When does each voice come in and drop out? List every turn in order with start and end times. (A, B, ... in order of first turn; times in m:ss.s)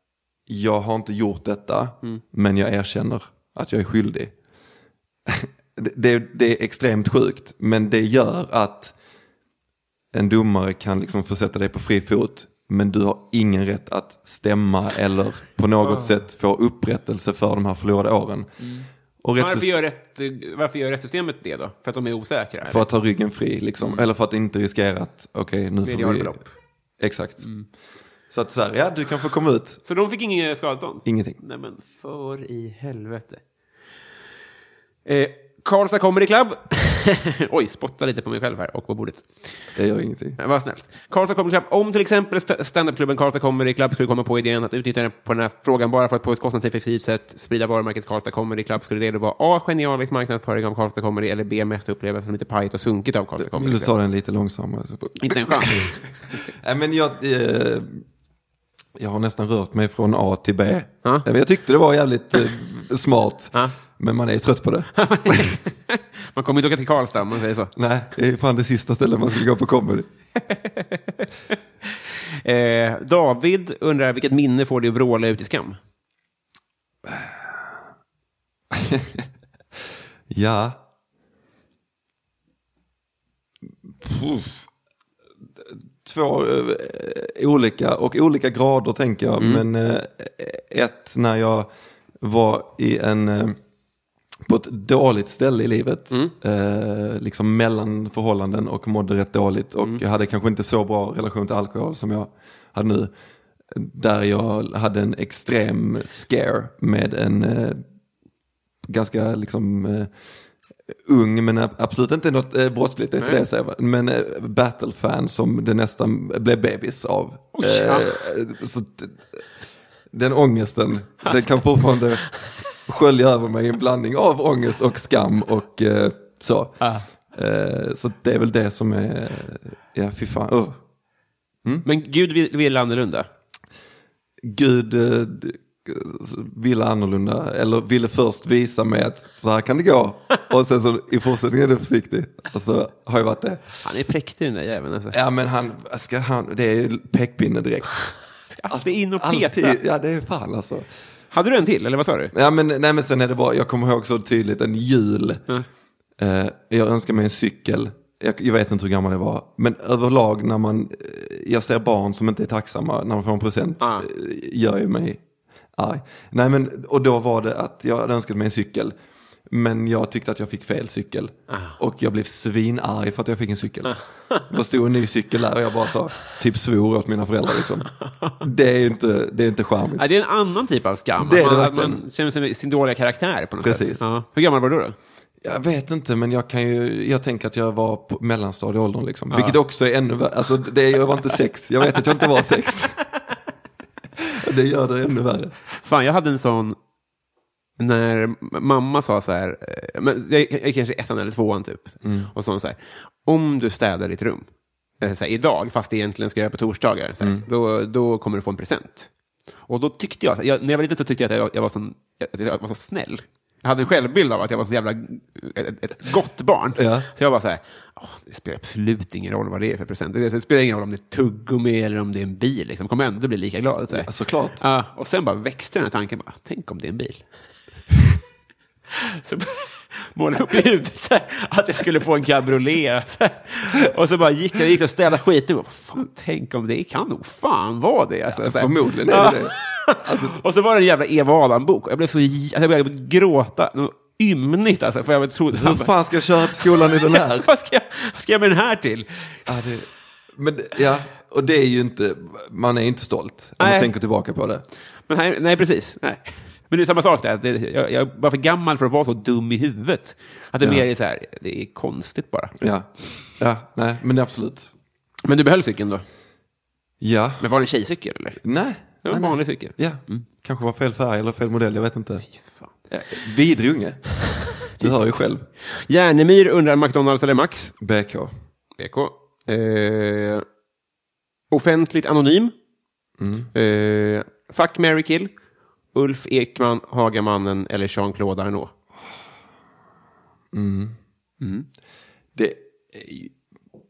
0:00.5-0:04.3 A
0:05.2-0:08.9 A
0:10.1-0:19.8 A
0:15.8-0:16.2 B
0:18.6-0:22.8 B
0:22.6-0:26.4 A
0:23.8-0:24.0 B
0:25.8-0:26.5 B
0:27.0-0:27.5 A
0:27.4-0:27.7 B
0:28.3-0:29.8 A
0:29.8-0:33.4 B
0:31.0-0:31.4 A
0:35.0-0:39.6 B
0:39.7-0:40.4 A
0:40.4-0:53.9 B
0:53.4-0:58.0 A
0:55.2-0:56.0 B
0:59.0-1:05.4 A
1:04.9-1:07.7 B
1:07.8-1:10.1 A
1:10.5-1:11.2 B
1:12.4-1:15.8 B
1:17.0-1:17.8 A
1:18.7-1:19.2 A
1:20.3-1:20.8 A
1:23.9-1:24.6 A
1:25.6-1:31.7 A
1:29.4-1:29.6 B
1:32.2-1:33.6 A
1:34.4-1:43.1 A
1:43.7-1:47.8 A
1:48.8-1:50.1 A
1:51.0-1:59.4 A
1:57.5-1:58.2 B
2:00.1-2:02.3 A
2:01.2-2:01.5 B
2:02.8-2:10.8 A
2:11.8-2:13.3 B
2:14.4-2:23.6 A
2:23.8-2:25.2 B
2:25.1-2:28.1 A
2:28.5-2:29.8 B
2:28.7-2:30.9 A
2:31.3-2:32.3 B
2:32.3-2:35.4 A
2:36.2-2:45.2 A
2:43.8-2:44.0 B
2:45.8-2:48.9 A
2:49.5-3:00.2 A
2:51.5-2:51.8 B
3:00.0-3:05.0 B
3:01.2-3:02.0 A
3:03.6-3:04.0 A
3:05.4-3:13.0 A
3:09.3-3:09.6 B
3:14.2-3:15.5 A
3:15.8-3:16.8 B
3:17.8-3:24.4 B
3:22.0-3:22.3 A
3:25.0-3:29.1 B
3:29.7-3:44.1 B
3:36.8-3:37.1 A
3:43.9-3:44.6 A
3:44.6-3:47.2 B
3:49.2-4:05.9 B
3:58.3-4:00.4 A
4:05.5-4:07.5 A
4:06.6-4:09.4 B
4:09.4-4:14.6 A
4:13.6-4:13.9 B
4:15.1-4:22.5 B
4:20.6-4:20.8 A
4:22.6-4:24.7 A
4:25.2-4:26.0 B
4:27.0-4:27.5 A
4:27.4-4:28.4 B
4:28.4-4:32.2 A
4:29.0-4:30.2 B
4:32.4-4:32.7 B
4:32.9-4:35.4 A
4:35.7-4:37.7 B
4:37.8-4:38.3 A
4:38.8-4:40.4 B
4:41.5-4:42.5 B
4:43.2-4:43.5 A
4:43.5-4:45.3 B
4:45.9-4:48.7 B
4:50.5-4:51.0 A
4:51.4-4:51.7 B
4:52.3-4:53.4 A